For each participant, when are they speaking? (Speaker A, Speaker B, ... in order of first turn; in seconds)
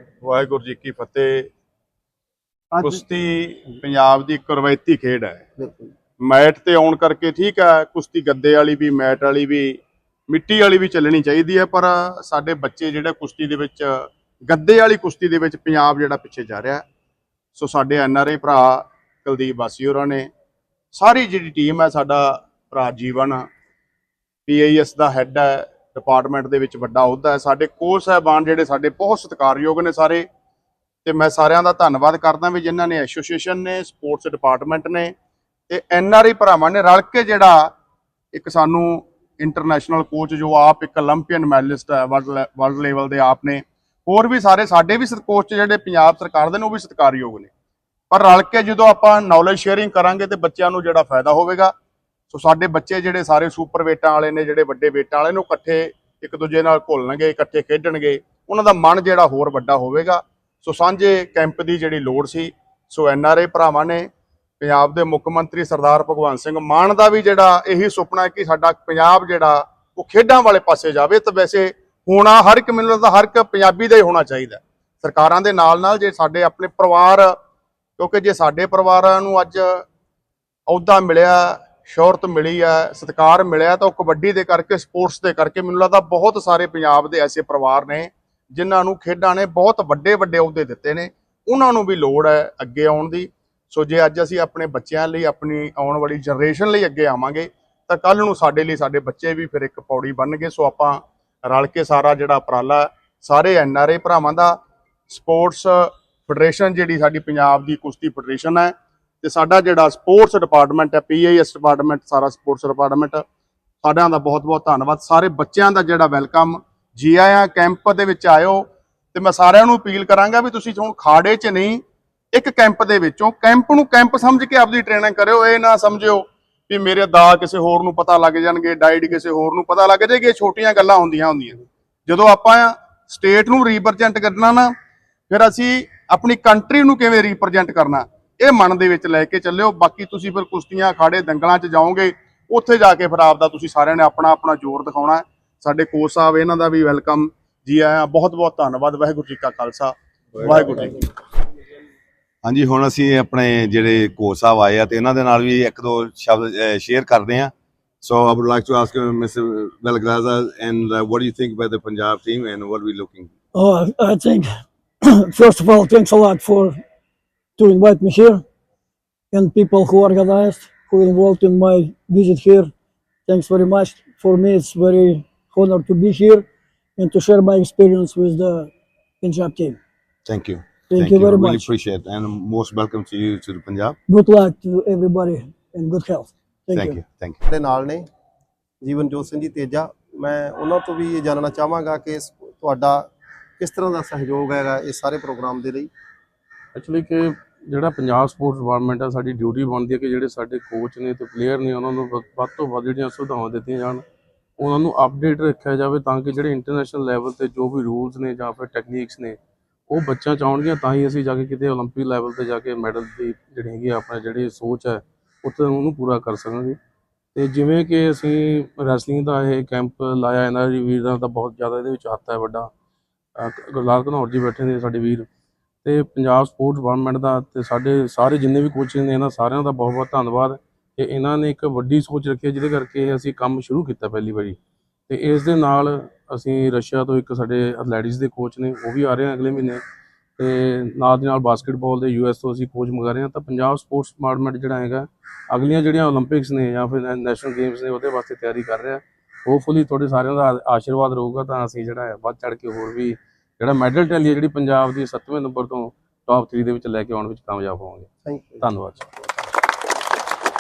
Speaker A: 0.2-1.5, 2.8-5.5, 6.2-16.8, 17.6-20.3, 20.9-23.5, 24.5-30.3, 31.1-35.1, 35.7-37.7, 38.3-47.5, 48.1-51.7, 52.3-64.1, 64.6-77.4, 78.0-79.8, 80.7-113.2, 113.8-134.7, 135.3-151.1
Speaker B: 2.7-3.0, 5.6-5.9, 187.5-188.1, 188.8-195.9, 258.2-258.7
Speaker C: 152.4-163.3, 180.3-184.0, 186.8-187.4
Speaker D: 163.6-166.8, 167.6-168.4, 169.3-172.7, 173.3-176.5, 177.0-179.8, 180.9-181.7, 184.1-187.0
Speaker E: 196.8-204.0, 204.6-209.4, 209.9-216.8, 217.3-222.7, 223.4-225.3, 225.8-234.6, 235.1-239.8, 240.4-259.1